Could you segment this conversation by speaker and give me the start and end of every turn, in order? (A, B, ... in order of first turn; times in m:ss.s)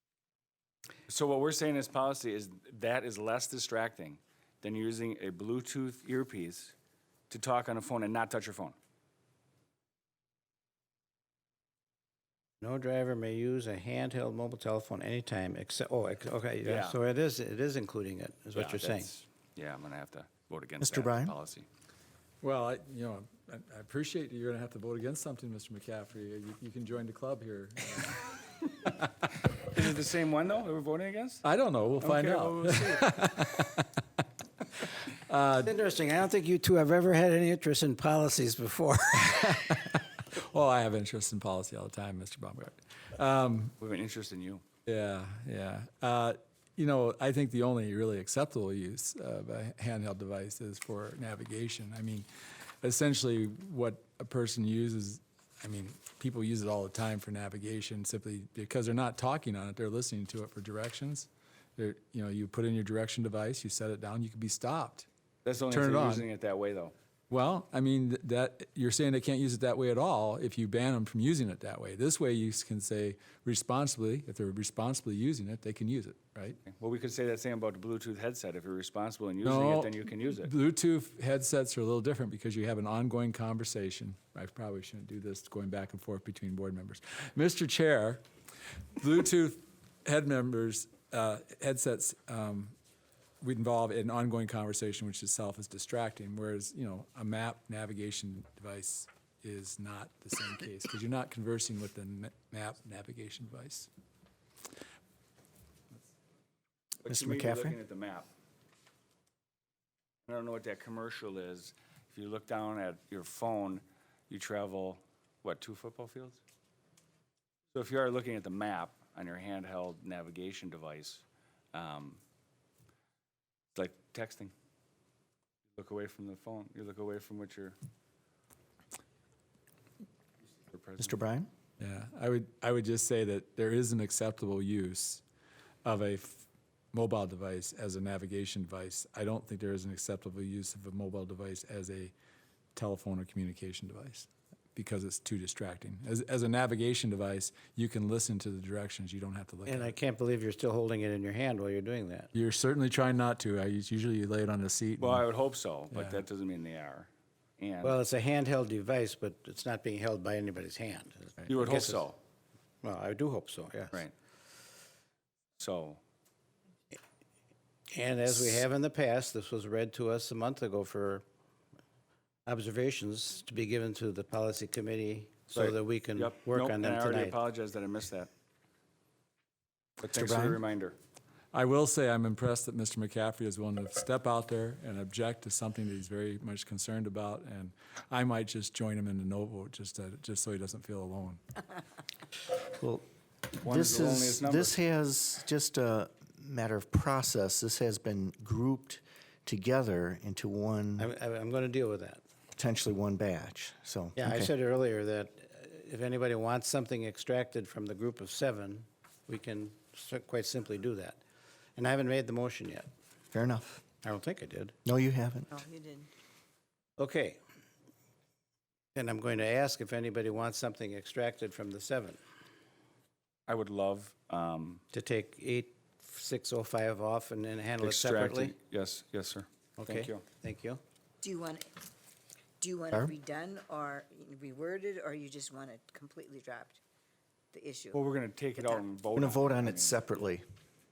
0:01.1-0:06.7 A
0:07.3-0:08.8 A
0:12.6-0:19.1 B
0:16.6-0:17.0 A
0:18.5-0:21.7 A
0:20.8-0:21.3 C
0:22.4-0:28.4 D
0:29.5-0:31.4 A
0:31.4-0:33.9 D
0:32.0-0:33.1 A
0:35.1-0:35.7 D
0:35.6-0:39.8 B
0:39.2-0:43.7 D
0:43.8-0:44.6 A
0:44.8-0:52.3 D
0:52.8-1:05.1 D
1:05.4-1:06.9 A
1:05.7-1:06.3 D
1:07.3-1:16.6 D
1:16.6-1:20.5 A
1:19.4-1:28.2 D
1:29.0-1:32.7 D
1:33.4-1:43.9 D
1:47.0-1:48.3 A
1:47.1-1:47.8 C
1:50.2-1:56.4 A
1:57.7-2:02.2 A
2:03.7-2:04.5 A
2:05.7-2:07.8 A
2:10.7-2:11.2 A
2:11.0-2:11.5 C
2:11.8-2:15.2 D
2:15.8-2:22.1 D
2:22.7-2:30.0 D
2:29.6-2:32.3 B
2:32.3-2:35.2 D
2:35.0-2:38.0 A
2:35.9-2:36.2 D
2:37.8-2:42.0 B
2:41.4-2:42.2 A
2:42.8-2:44.0 B
2:45.6-2:46.0 A
2:47.9-2:51.2 B
2:52.4-2:57.4 B
2:55.5-2:58.3 A
3:00.0-3:01.0 A
3:00.1-3:00.6 C
3:01.5-3:11.4 D
3:12.7-3:13.0 C
3:13.6-3:21.1 C
3:13.6-3:14.7 A
3:21.0-3:22.2 B
3:22.6-3:24.5 C
3:24.2-3:31.2 B
3:31.8-3:32.9 B
3:33.3-3:33.8 C
3:34.0-3:34.7 B
3:34.8-3:35.5 C
3:35.5-3:36.1 E
3:37.0-3:37.4 B
3:38.9-3:42.2 B
3:43.5-3:44.8 A
3:44.9-3:48.5 B
3:47.8-3:50.2 A
3:49.8-3:50.8 B
3:51.2-3:51.7 E
3:52.6-3:56.8 E
3:57.5-3:58.0 E
3:57.9-4:00.1 A
3:58.6-3:58.8 E
3:59.1-4:00.4 C